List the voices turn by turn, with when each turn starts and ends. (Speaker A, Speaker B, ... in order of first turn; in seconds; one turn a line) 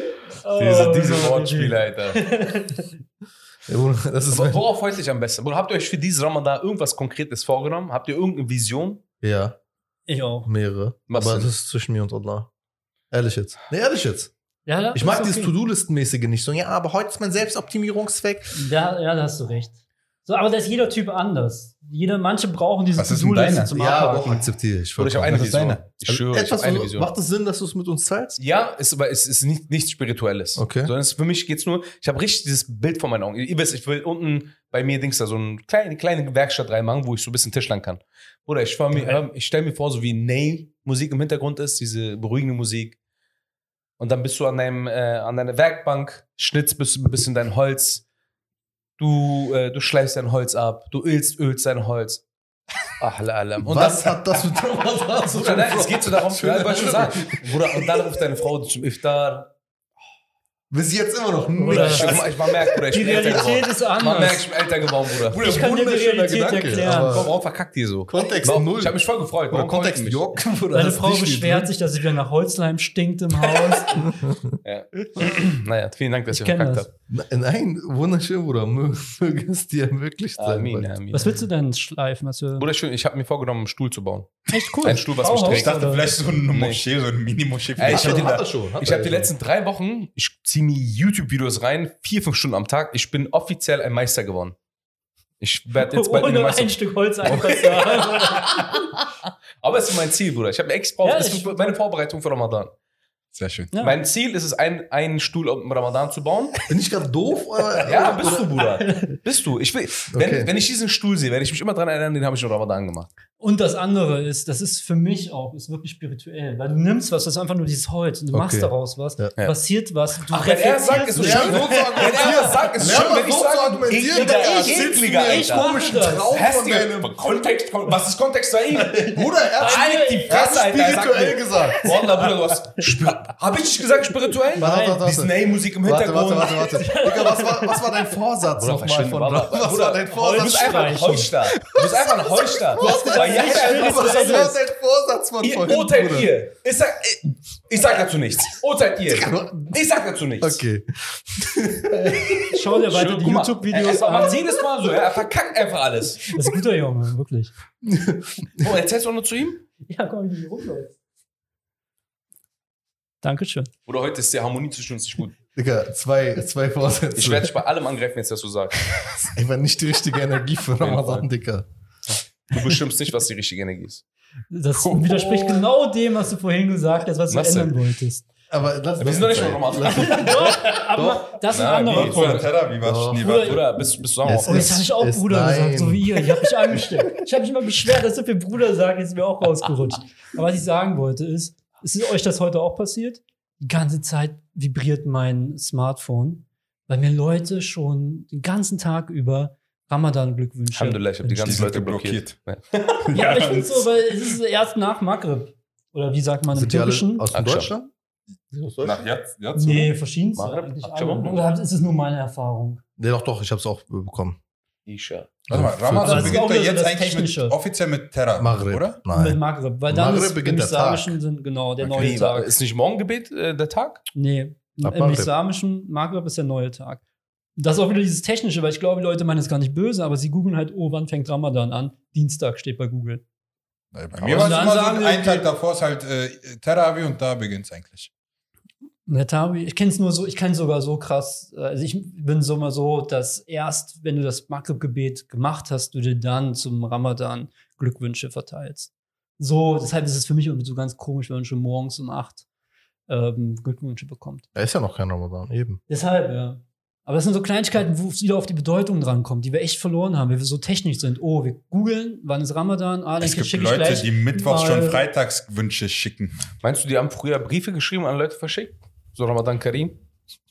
Speaker A: 0.4-2.9
Speaker B: 0.6-2.2
Speaker C: 3.6-4.6
Speaker B: 4.3-9.0
Speaker C: 9.2-9.6
Speaker A: 10.1-10.5
Speaker C: 10.4-12.5
Speaker B: 11.1-11.5
Speaker C: 13.1-14.3
Speaker A: 14.7-15.5
Speaker C: 14.9-18.6
Speaker A: 18.6-24.5
Speaker D: 22.9-23.7
Speaker C: 23.7-28.4
Speaker B: 25.0-27.1
Speaker D: 25.2-25.8
Speaker B: 28.4-43.0
Speaker C: 30.6-30.9
Speaker A: 38.9-39.2
Speaker B: 44.0-48.0
Speaker B: 49.0-52.2
Speaker B: 52.9-54.2
Speaker C: 53.6-58.2
Speaker B: 55.3-59.5
Speaker C: 60.7-62.6
Speaker A: 61.5-62.2
Speaker B: 61.7-65.5
Speaker A: 62.9-64.5
Speaker C: 65.3-67.3
Speaker A: 65.3-67.3
Speaker B: 66.9-70.4
Speaker C: 68.1-69.0
Speaker C: 69.5-71.7
Speaker A: 70.7-74.0
Speaker C: 74.0-74.6
Speaker B: 74.6-76.9
Speaker A: 76.3-76.9
Speaker C: 77.1-81.0
Speaker B: 80.4-81.3
Speaker A: 81.1-82.7
Speaker B: 82.6-85.9
Speaker A: 84.5-86.0
Speaker D: 85.3-88.4
Speaker B: 86.5-86.8
Speaker B: 87.8-94.5
Speaker C: 87.8-89.3
Speaker B: 95.4-98.9
Speaker A: 95.8-98.9
Speaker B: 99.6-102.7
Speaker A: 101.0-101.7
Speaker D: 103.3-103.7
Speaker B: 103.8-106.6
Speaker C: 106.7-108.5
Speaker A: 107.8-109.2
Speaker B: 107.8-113.1
Speaker C: 110.1-110.5
Speaker A: 113.4-122.6
Speaker C: 118.3-119.3
Speaker B: 120.3-125.7
Speaker C: 121.2-127.1
Speaker A: 124.0-126.3
Speaker B: 126.3-136.9
Speaker C: 129.0-131.9
Speaker A: 129.1-130.4
Speaker A: 131.8-132.2
Speaker A: 134.5-135.0
Speaker C: 134.6-141.2
Speaker A: 136.6-137.9
Speaker B: 138.6-144.5
Speaker A: 140.1-141.3
Speaker C: 141.7-146.3
Speaker A: 142.7-144.6
Speaker B: 145.4-150.6
Speaker C: 149.1-149.8
Speaker C: 150.4-152.5
Speaker A: 152.5-154.4
Speaker B: 152.8-156.3
Speaker A: 156.3-157.5
Speaker C: 157.8-158.7
Speaker B: 158.6-159.6
Speaker A: 159.9-160.9
Speaker A: 163.2-163.7
Speaker B: 163.8-165.4
Speaker C: 165.5-167.5
Speaker B: 167.2-169.1
Speaker C: 169.0-171.7
Speaker B: 170.8-171.2
Speaker B: 172.1-174.0
Speaker A: 174.5-178.2
Speaker B: 174.8-175.5
Speaker B: 177.3-177.8
Speaker C: 178.5-181.3
Speaker B: 179.0-180.6
Speaker A: 179.8-182.5
Speaker B: 181.4-182.5
Speaker D: 181.9-183.6
Speaker C: 182.8-183.3
Speaker A: 183.1-183.6
Speaker B: 183.2-184.7
Speaker C: 184.2-186.2
Speaker A: 184.4-201.7
Speaker B: 200.7-203.0
Speaker D: 201.4-202.3
Speaker D: 203.0-203.9
Speaker A: 203.1-207.2
Speaker C: 206.5-207.9
Speaker B: 207.3-207.7
Speaker C: 208.5-209.1
Speaker D: 208.8-209.9
Speaker A: 209.6-212.8
Speaker B: 210.3-211.4
Speaker C: 213.0-214.4
Speaker B: 214.9-215.4
Speaker C: 215.5-216.4
Speaker D: 215.5-219.0
Speaker A: 216.0-217.5
Speaker C: 218.4-221.2
Speaker A: 219.1-222.5
Speaker D: 221.8-222.1
Speaker B: 221.9-224.0
Speaker A: 224.1-227.0
Speaker C: 224.8-225.3
Speaker A: 227.6-233.2
Speaker D: 233.9-238.1
Speaker A: 234.2-235.5
Speaker A: 239.1-252.4
Speaker A: 253.1-254.4
Speaker C: 254.5-255.8
Speaker A: 255.9-265.0
Speaker D: 263.2-266.5
Speaker B: 266.6-270.0